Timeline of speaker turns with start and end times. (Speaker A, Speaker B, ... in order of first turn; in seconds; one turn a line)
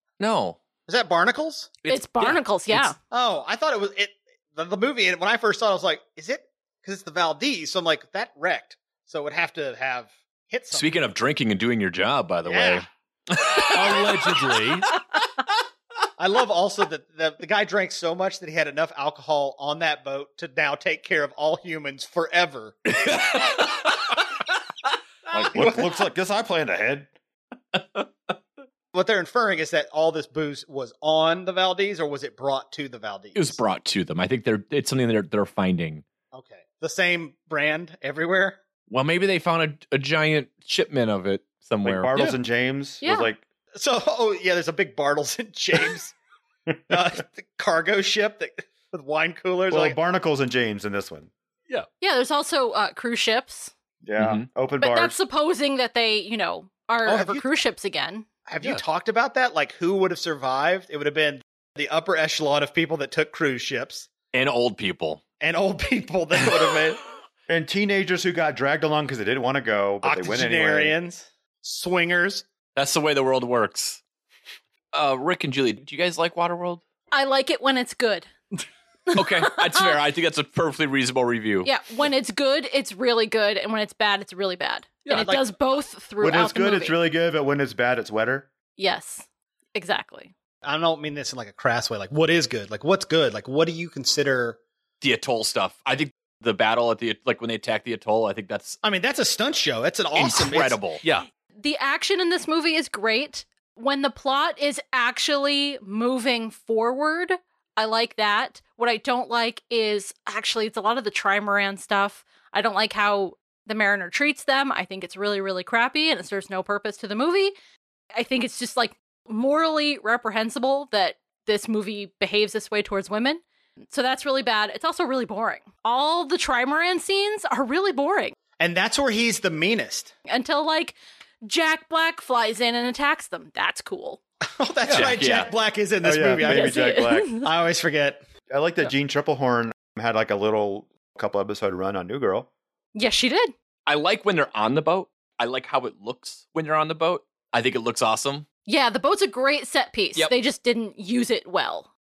Speaker A: 0.2-0.6
Speaker B: 0.9-1.7
Speaker C: 1.8-2.9
Speaker D: 1.9-3.0
Speaker B: 3.1-10.9
Speaker A: 10.7-14.4
Speaker B: 12.4-12.9
Speaker C: 13.7-14.9
Speaker B: 16.2-23.0
Speaker A: 23.0-24.1
Speaker A: 25.3-25.8
Speaker E: 25.4-27.1
Speaker A: 27.7-28.0
Speaker B: 28.9-33.6
Speaker A: 33.3-36.0
Speaker B: 36.3-38.6
Speaker A: 38.9-42.1
Speaker E: 41.8-43.4
Speaker D: 43.0-43.3
Speaker B: 43.7-46.1
Speaker E: 46.7-47.0
Speaker B: 46.9-50.0
Speaker E: 49.7-51.3
Speaker D: 52.0-53.7
Speaker E: 54.0-55.2
Speaker A: 54.2-54.5
Speaker D: 54.8-58.2
Speaker B: 57.0-57.5
Speaker B: 58.5-64.1
Speaker A: 64.3-65.2
Speaker B: 65.4-67.0
Speaker E: 67.5-70.9
Speaker B: 70.0-72.4
Speaker A: 72.7-74.0
Speaker A: 74.9-76.8
Speaker D: 77.1-78.3
Speaker D: 79.1-80.0
Speaker A: 79.1-81.7
Speaker D: 81.6-87.0
Speaker C: 85.0-85.3
Speaker B: 85.1-85.4
Speaker E: 86.2-88.5
Speaker D: 88.8-90.3
Speaker B: 90.6-94.6
Speaker A: 95.0-98.8
Speaker B: 98.8-100.8
Speaker A: 100.1-101.0
Speaker C: 101.0-101.3
Speaker D: 101.6-117.5
Speaker D: 118.1-128.3
Speaker B: 128.6-130.1
Speaker D: 130.3-134.2
Speaker B: 134.6-138.2
Speaker C: 134.9-135.2
Speaker A: 134.9-135.5
Speaker E: 136.0-137.4
Speaker D: 136.4-137.5
Speaker E: 138.5-142.5
Speaker D: 142.9-143.5
Speaker A: 143.8-148.4
Speaker D: 148.7-151.9